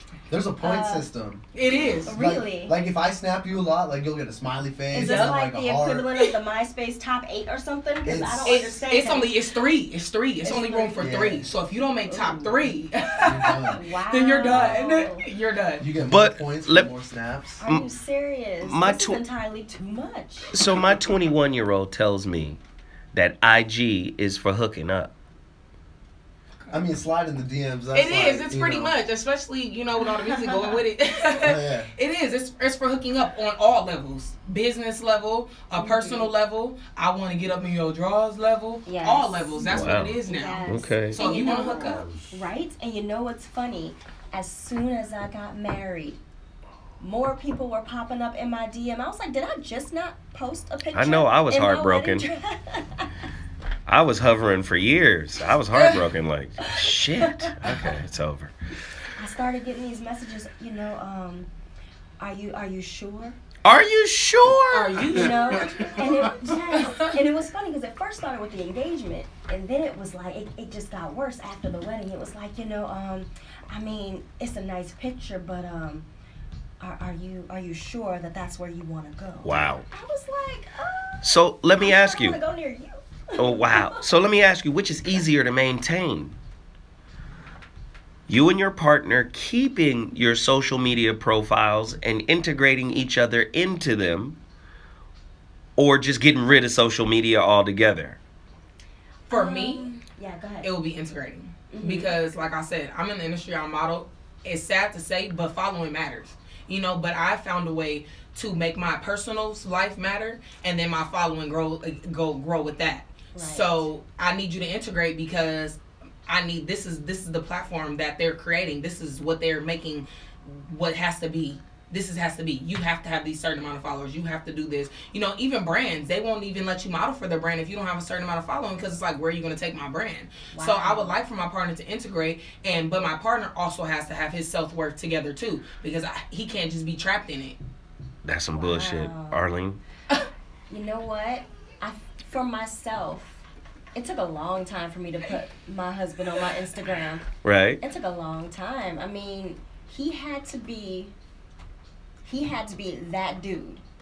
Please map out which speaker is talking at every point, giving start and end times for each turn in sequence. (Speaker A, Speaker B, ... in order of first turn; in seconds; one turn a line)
Speaker A: 0.3-1.4
Speaker B: 0.6-1.1
Speaker C: 1.5-2.1
Speaker A: 2.0-6.1
Speaker B: 2.0-2.8
Speaker B: 4.9-9.3
Speaker C: 4.9-5.4
Speaker A: 8.0-8.6
Speaker C: 8.4-15.8
Speaker B: 10.4-11.0
Speaker A: 11.0-11.5
Speaker B: 12.1-12.6
Speaker A: 13.2-13.8
Speaker B: 13.7-15.2
Speaker A: 14.5-14.8
Speaker A: 15.8-17.6
Speaker D: 16.0-16.9
Speaker B: 17.6-20.5
Speaker D: 18.6-19.2
Speaker D: 20.5-22.6
Speaker D: 23.1-25.1
Speaker A: 26.7-28.9
Speaker C: 27.9-42.2
Speaker A: 31.4-31.9
Speaker B: 35.8-36.3
Speaker B: 38.8-46.2
Speaker D: 39.6-41.2
Speaker D: 41.8-42.0
Speaker B: 47.0-53.1
Speaker D: 50.9-52.3
Speaker D: 53.9-58.5
Speaker B: 56.6-57.2
Speaker B: 59.1-61.5
Speaker B: 62.2-63.4
Speaker D: 63.6-65.2
Speaker C: 64.7-67.0
Speaker B: 65.1-76.1
Speaker B: 76.8-84.0
Speaker D: 79.4-79.8
Speaker D: 81.2-82.4
Speaker D: 83.4-86.3
Speaker D: 88.3-94.4
Speaker D: 95.8-98.2
Speaker C: 99.3-99.9
Speaker B: 99.3-100.7
Speaker C: 100.6-137.6
Speaker B: 101.7-102.1
Speaker B: 113.3-113.9
Speaker B: 130.5-131.2
Speaker D: 138.2-139.8
Speaker B: 138.5-139.4
Speaker B: 140.7-147.3
Speaker D: 147.4-147.8
Speaker B: 147.8-151.1
Speaker B: 152.2-153.8